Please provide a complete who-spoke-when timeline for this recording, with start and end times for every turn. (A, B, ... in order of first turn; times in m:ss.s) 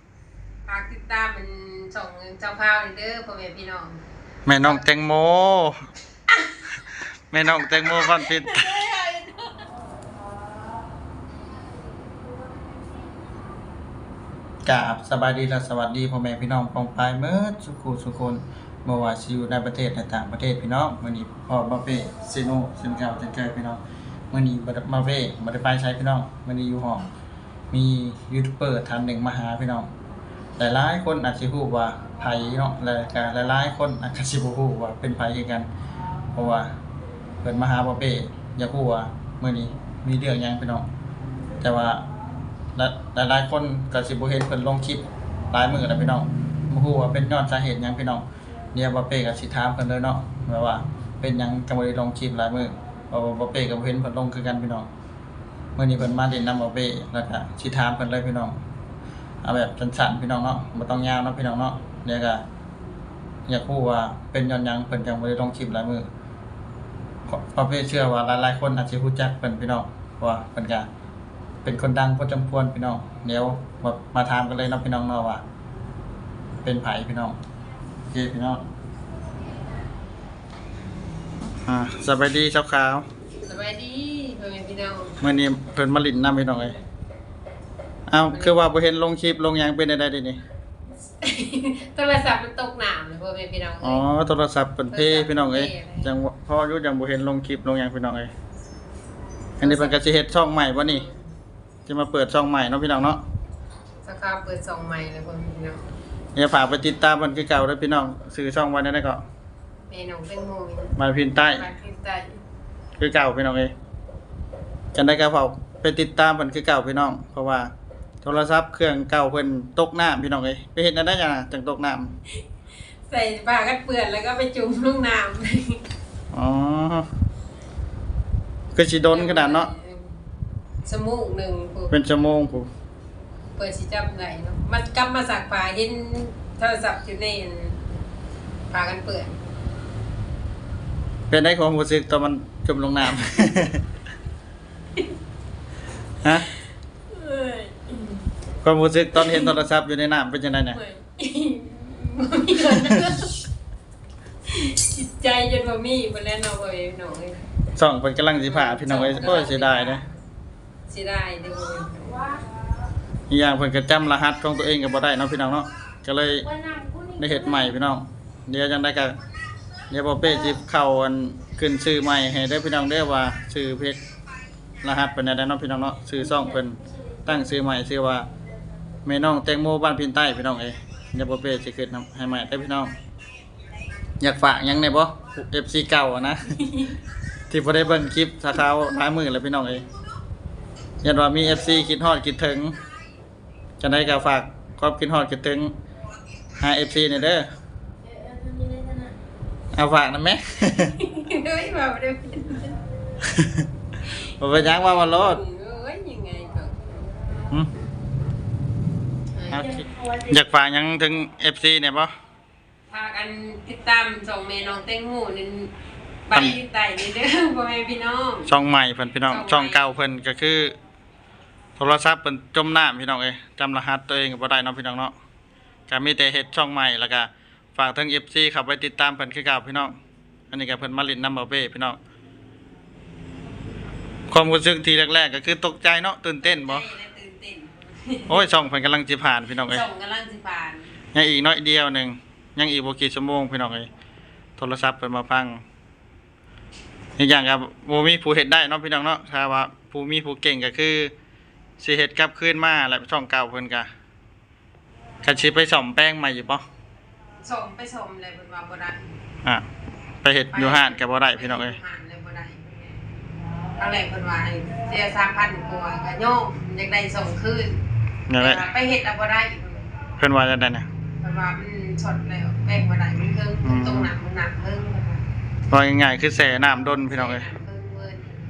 0:00.7-0:04.0 A
0:04.5-0:05.8 B
0:07.3-0:08.7 B
0:07.6-0:09.6 A
0:14.6-0:23.8 B
0:24.3-0:27.0 B
0:27.7-0:29.9 B
0:30.6-0:35.7 B
0:36.4-0:36.7 B
0:37.4-0:40.9 B
0:41.6-0:42.0 B
0:42.8-0:54.9 B
0:55.8-0:58.6 B
0:59.4-1:02.4 B
1:03.5-1:06.1 B
1:07.3-1:10.9 B
1:11.6-1:15.4 B
1:16.6-1:17.4 B
1:18.1-1:18.6 B
1:21.6-1:23.1 B
1:23.5-1:25.2 A
1:25.2-1:26.8 B
1:28.1-1:30.4 B
1:28.3-1:28.6 A
1:31.0-1:34.0 A
1:33.8-1:38.3 B
1:34.9-1:36.2 A
1:39.6-1:41.0 B
1:39.6-1:40.0 A
1:40.8-1:41.3 A
1:41.9-1:43.2 B
1:44.0-1:45.9 A
1:46.4-1:49.2 B
1:49.9-1:52.4 A
1:51.0-1:51.6 B
1:53.0-1:53.7 B
1:54.9-2:02.1 B
2:03.1-2:05.8 A
2:06.3-2:07.1 B
2:08.7-2:09.7 B
2:09.1-2:10.2 A
2:10.8-2:12.0 A
2:11.9-2:12.7 B
2:13.6-2:18.0 A
2:18.7-2:19.4 A
2:21.3-2:23.8 B
2:27.1-2:28.3 A
2:28.6-2:30.8 B
2:29.2-2:29.6 A
2:30.7-2:33.4 A
2:34.5-2:37.4 A
2:37.8-2:40.0 B
2:38.4-2:40.2 A
2:40.9-2:42.4 A
2:43.3-2:46.5 B
2:47.2-2:49.2 B
2:49.9-2:54.0 B
2:54.8-2:58.3 B
2:59.1-3:02.9 B
3:04.2-3:06.6 B
3:06.5-3:06.9 A
3:07.5-3:09.8 B
3:11.0-3:12.8 B
3:13.8-3:15.7 B
3:16.6-3:17.5 B
3:19.7-3:20.9 B
3:21.0-3:22.8 A
3:23.3-3:23.6 B
3:24.4-3:25.4 B
3:24.5-3:27.1 A
3:29.4-3:29.8 A
3:29.5-3:32.1 B
3:32.9-3:35.7 A
3:36.3-3:38.5 A
3:38.5-3:40.7 B
3:39.3-3:39.9 A
3:41.8-3:45.1 B
3:45.9-3:50.0 B
3:50.5-3:52.0 B
3:54.3-3:56.9 B
3:56.4-3:58.5 A
3:58.3-3:59.8 B
3:59.7-4:01.0 A
4:01.1-4:03.9 B
4:04.6-4:05.6 B
4:07.2-4:11.1 B
4:11.8-4:13.9 B
4:15.2-4:16.6 B
4:17.4-4:19.2 A
4:20.2-4:21.8 B
4:20.5-4:23.0 A
4:23.8-4:27.8 A
4:28.3-4:28.7 B
4:28.4-4:29.9 A
4:30.2-4:30.9 B
4:31.2-4:35.2 A
4:33.6-4:34.1 B
4:35.7-4:37.5 B
4:36.9-4:38.3 A